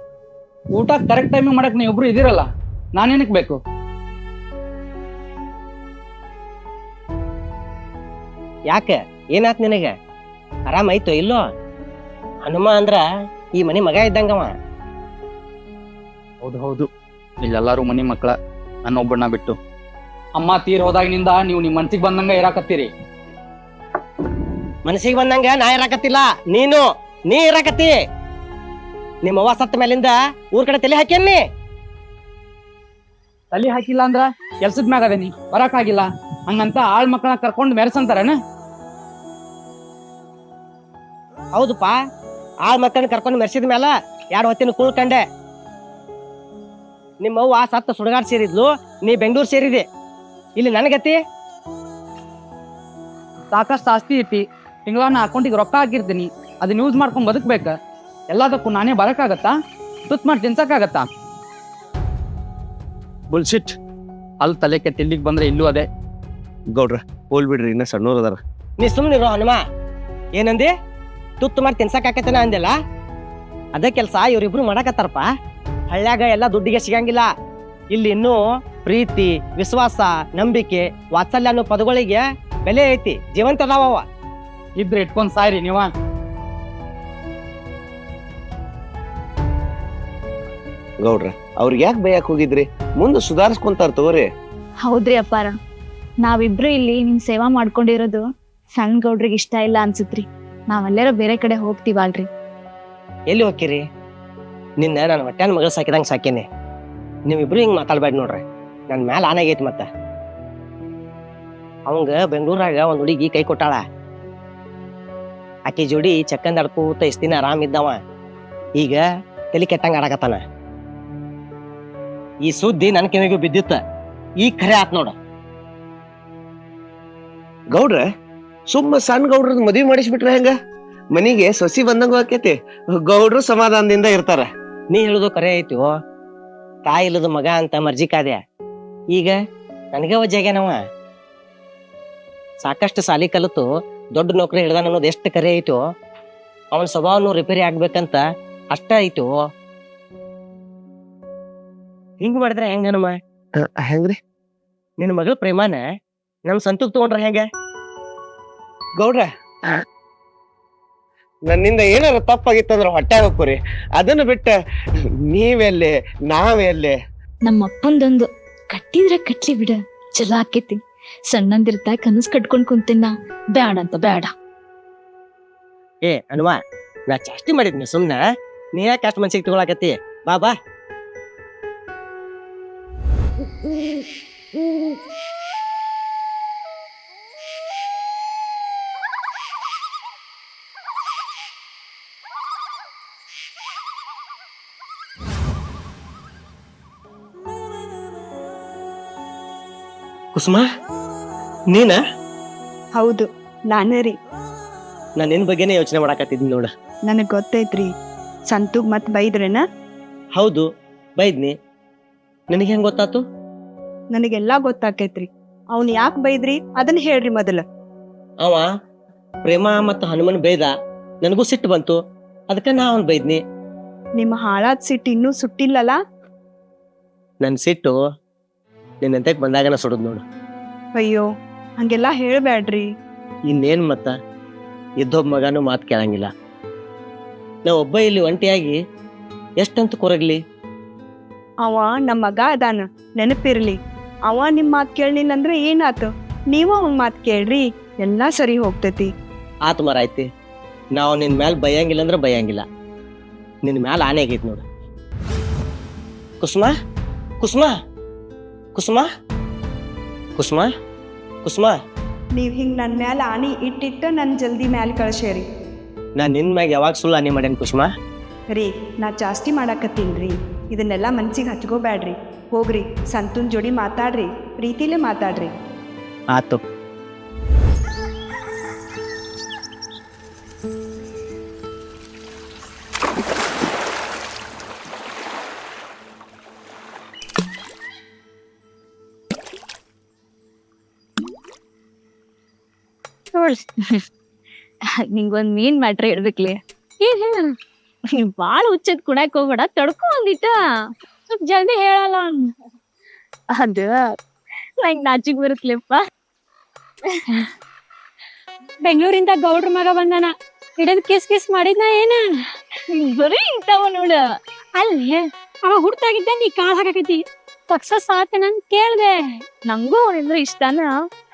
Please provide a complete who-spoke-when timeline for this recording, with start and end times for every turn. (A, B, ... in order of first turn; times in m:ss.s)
0:00.7-0:03.6 A
0:08.7-0:09.9 B
0:10.7-0:11.4 B
0:12.4-0:13.0 B
0:13.6-0:14.5 B
0:16.4-0:16.9 A
0:17.4-0:18.3 A
0:18.8-0:19.6 A
0:20.4-0:22.9 A
0:24.8-0:27.9 B
0:29.2-0:31.4 B
0:33.5-0:38.4 A
0:41.6-0:42.0 B
0:42.6-0:45.2 B
0:47.2-0:49.8 B
0:50.6-0:51.2 B
0:53.5-0:57.7 A
0:58.3-0:59.5 A
1:00.1-1:01.1 A
1:03.3-1:03.8 A
1:04.4-1:05.9 A
1:06.7-1:08.4 C
1:08.8-1:09.6 B
1:10.4-1:10.7 B
1:11.4-1:12.7 B
1:13.7-1:15.3 B
1:15.9-1:17.3 B
1:17.9-1:24.1 B
1:24.8-1:25.9 A
1:31.0-1:34.3 C
1:34.8-1:35.5 D
1:36.2-1:38.2 D
1:38.7-1:42.3 D
1:43.3-1:43.8 B
1:44.8-1:46.4 B
1:47.3-1:49.8 B
1:51.9-1:53.8 B
1:55.7-1:58.0 B
1:58.8-2:00.4 B
2:02.4-2:03.8 B
2:04.4-2:05.1 B
2:07.7-2:08.0 C
2:08.7-2:10.5 C
2:11.1-2:14.4 C
2:14.9-2:15.9 B
2:16.8-2:18.4 B
2:19.9-2:20.8 B
2:22.6-2:25.8 B
2:26.7-2:29.3 B
2:32.2-2:33.2 B
2:33.6-2:34.1 C
2:35.0-2:35.8 B
2:36.5-2:37.4 B
2:39.0-2:39.8 C
2:41.5-2:44.5 C
2:45.3-2:46.9 C
2:47.4-2:54.3 D
2:56.0-2:58.2 B
2:58.8-3:00.5 B
3:20.3-3:20.6 B
3:21.7-3:22.0 B
3:23.0-3:24.2 E
3:25.2-3:26.7 B
3:27.1-3:27.9 E
3:28.5-3:29.6 E
3:30.4-3:30.6 B
3:31.2-3:31.5 B
3:32.5-3:33.2 B
3:34.1-3:37.6 E
3:39.4-3:40.7 B
3:41.2-3:42.0 B
3:42.5-3:43.4 B
3:44.2-3:46.0 E
3:47.4-3:48.0 B
3:49.0-3:50.2 B
3:51.0-3:51.2 E
3:51.8-3:52.8 E
3:53.5-3:54.1 B
3:55.0-3:56.3 B
3:57.6-3:58.8 B
3:59.6-4:00.4 B
4:01.6-4:09.1 E
4:09.6-4:10.3 B
4:10.9-4:12.6 B
4:13.6-4:14.6 B
4:16.4-4:16.7 B
4:17.4-4:17.7 B
4:18.7-4:19.1 B
4:20.4-4:20.7 B
4:21.4-4:21.7 B
4:22.4-4:25.4 E
4:26.2-4:27.9 B
4:28.5-4:35.5 E
4:53.3-4:54.0 D
4:54.9-4:56.6 D
4:57.0-4:57.5 F
4:58.2-5:00.6 D
5:01.4-5:02.5 F
5:03.5-5:04.2 D
5:04.8-5:06.0 D
5:08.8-5:12.2 F
5:12.9-5:14.2 D
5:14.8-5:19.2 F
5:19.6-5:20.9 D